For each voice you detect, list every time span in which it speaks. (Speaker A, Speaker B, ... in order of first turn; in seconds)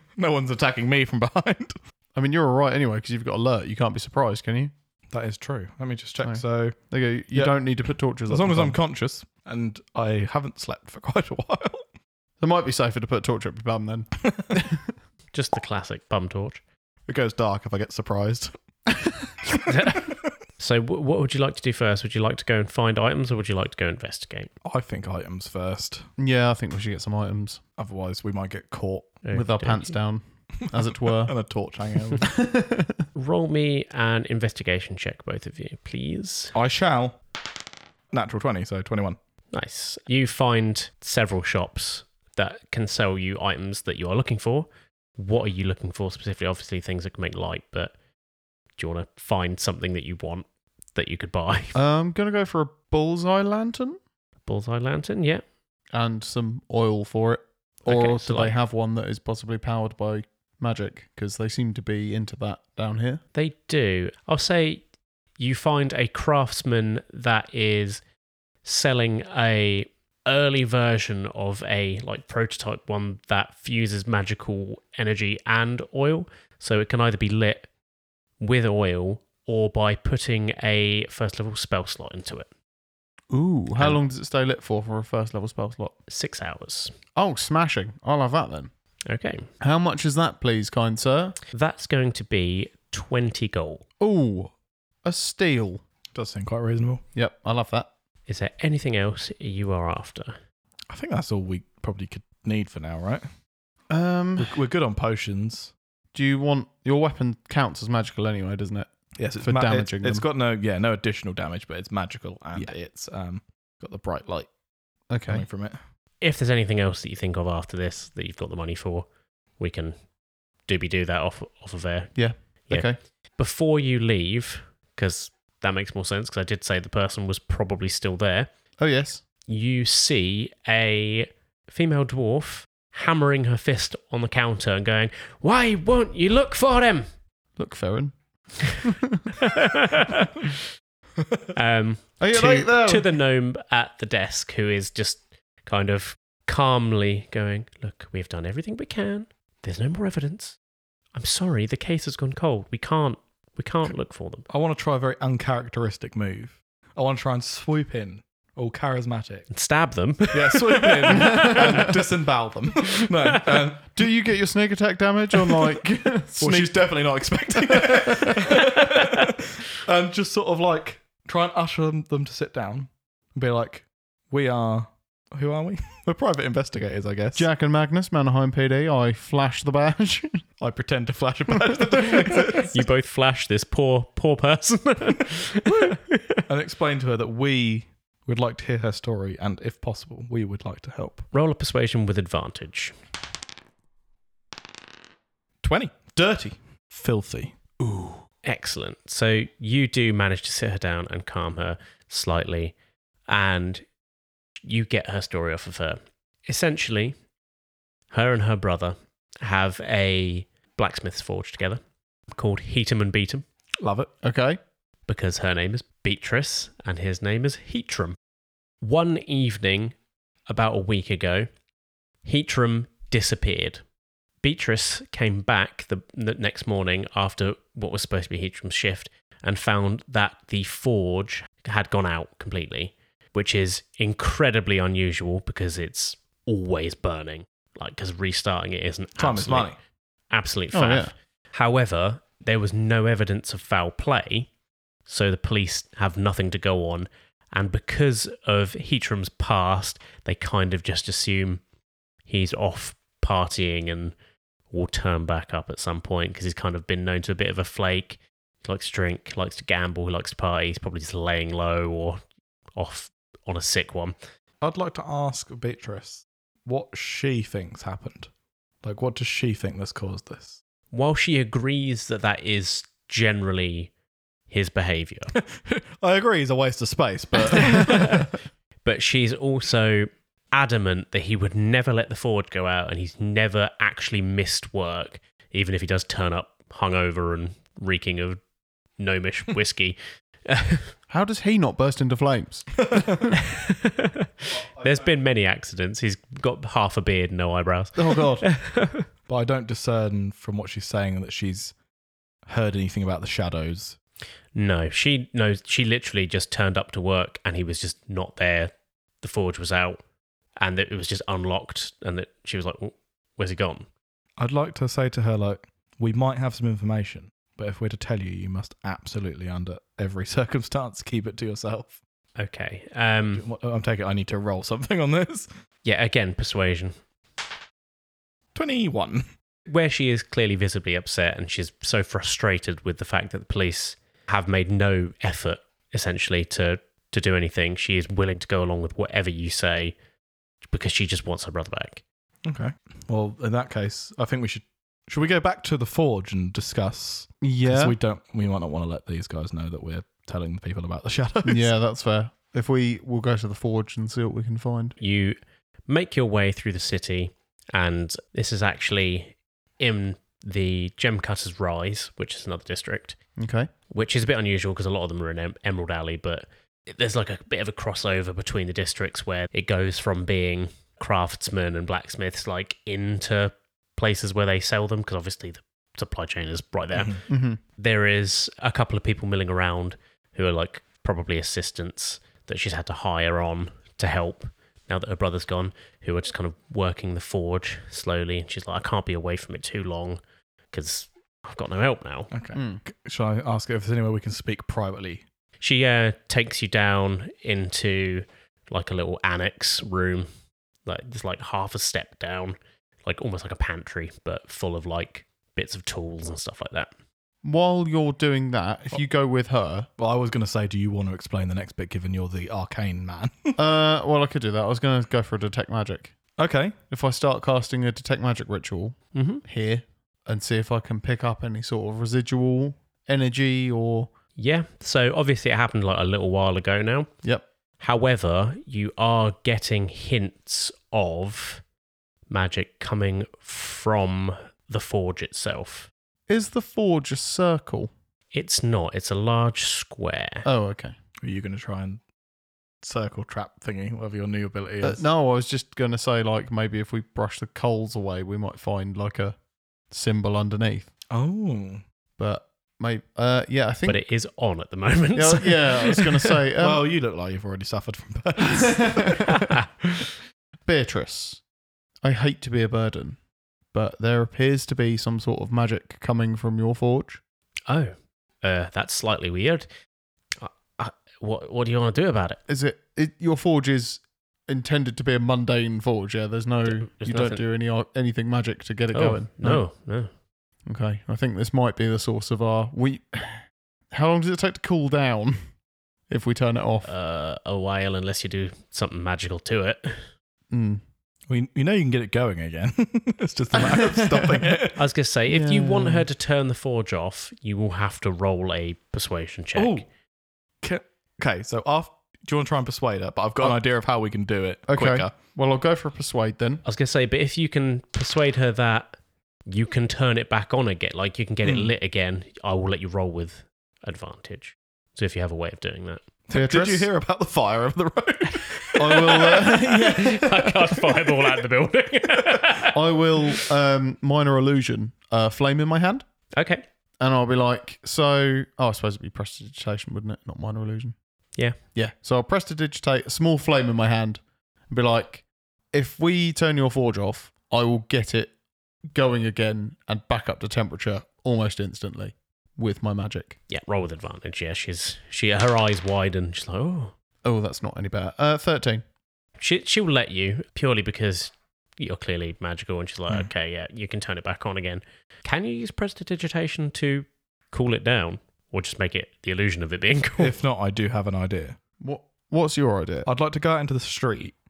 Speaker A: 0.2-1.7, 5.1-6.8, 7.3-7.6, 8.2-11.8, 17.1-18.5, 24.6-26.1, 27.8-29.2, 30.7-32.3, 36.5-37.2, 38.1-39.2, 96.1-97.0, 100.9-103.2, 104.4-105.7, 109.2-114.5, 115.3-115.8, 154.5-159.5, 160.3-164.0, 166.4-177.4, 180.6-182.8, 186.5-191.2, 195.6-197.6, 213.8-214.1, 239.2-239.8, 264.6-268.3, 268.8-270.6, 275.3-278.3, 292.8-293.1, 294.6-295.1, 299.3-301.7, 302.4-304.0, 314.4-322.0, 323.3-325.5, 328.5-329.2, 342.4-351.7, 376.9-377.2, 392.3-395.2, 410.0-413.6, 416.4-416.8, 441.2-442.0, 442.8-445.0, 451.1-451.8, 456.6-459.3, 491.3-494.8, 499.5-499.9, 500.6-505.1, 511.4-511.7, 516.3-519.5, 560.2-561.6, 563.0-564.4
Speaker B: 2.1-4.7, 6.2-8.8, 12.4-14.9, 26.2-27.6, 29.3-31.3, 32.2-33.0, 51.7-54.0, 55.9-63.2, 83.3-85.9, 87.2-88.7, 89.6-91.4, 94.0-94.5, 95.0-95.8, 97.1-97.9, 103.9-104.6, 106.1-110.2, 115.1-115.4, 122.1-123.0, 128.8-129.2, 137.6-139.3, 142.2-143.1, 161.1-161.9, 163.9-166.9, 167.5-168.5, 177.3-180.4, 181.7-182.4, 214.2-214.6, 240.7-241.1, 291.1-293.3, 297.9-298.4, 347.4-347.9, 351.4-354.9, 363.4-363.7, 377.3-377.6, 392.5-392.8, 407.4-409.9, 413.6-416.2, 416.9-424.1, 436.3-437.9, 440.4-440.9, 444.8-449.4, 449.9-450.9, 452.2-454.0, 455.1-456.8, 458.5-459.4, 460.6-461.4, 462.0-463.2, 463.7-467.2, 472.5-479.6, 480.6-485.4, 486.1-486.9, 490.5-490.8, 493.5-494.5, 495.3-496.1, 504.7-506.6, 516.3-516.9, 518.8-520.7, 522.7-526.0, 527.0-530.9, 531.7-538.3, 538.9-543.4, 547.2-548.8, 561.8-563.1
Speaker C: 15.3-16.6, 19.6-24.5, 29.2-29.9, 33.1-36.5, 39.5-47.9, 48.8-51.8, 54.4-55.4, 57.9-58.5, 63.3-64.8, 65.4-68.0, 68.6-77.7, 78.4-82.5, 86.1-86.9, 89.1-89.5, 91.5-93.8, 98.3-100.3, 116.2-119.9, 120.7-122.1, 122.7-128.5, 129.5-137.1, 139.4-140.5, 141.5-150.6, 151.1-154.4, 159.5-161.9, 168.8-169.2, 182.7-186.4, 191.3-192.9, 198.4-202.8, 203.3-203.8, 204.6-207.2, 208.1-211.8, 212.3-213.4, 215.1-218.2, 218.8-219.9, 220.5-221.5, 222.2-223.8, 224.4-239.7, 240.3-244.5, 245.1-251.6, 252.2-254.1, 254.7-262.2, 262.8-264.1, 270.9-273.9, 274.5-275.3, 277.5-278.3, 278.8-288.4, 289.0-290.9, 293.3-299.1, 304.5-310.0, 310.6-313.9, 322.4-323.4, 325.8-326.9, 329.7-339.9, 340.6-342.0, 355.0-363.2, 363.9-377.2, 377.8-390.2, 390.7-392.3, 395.6-400.3, 400.8-406.9, 419.1-419.4, 424.4-427.1, 427.8-431.6, 432.3-435.9, 438.3-440.4, 453.9-456.3, 459.3-460.1, 467.7-469.6, 470.4-472.4, 476.7-477.4, 478.9-480.1, 486.8-490.0, 494.8-499.8, 506.6-508.9, 509.5-516.0, 519.2-522.8, 526.3-526.6, 543.5-546.9, 549.4-560.4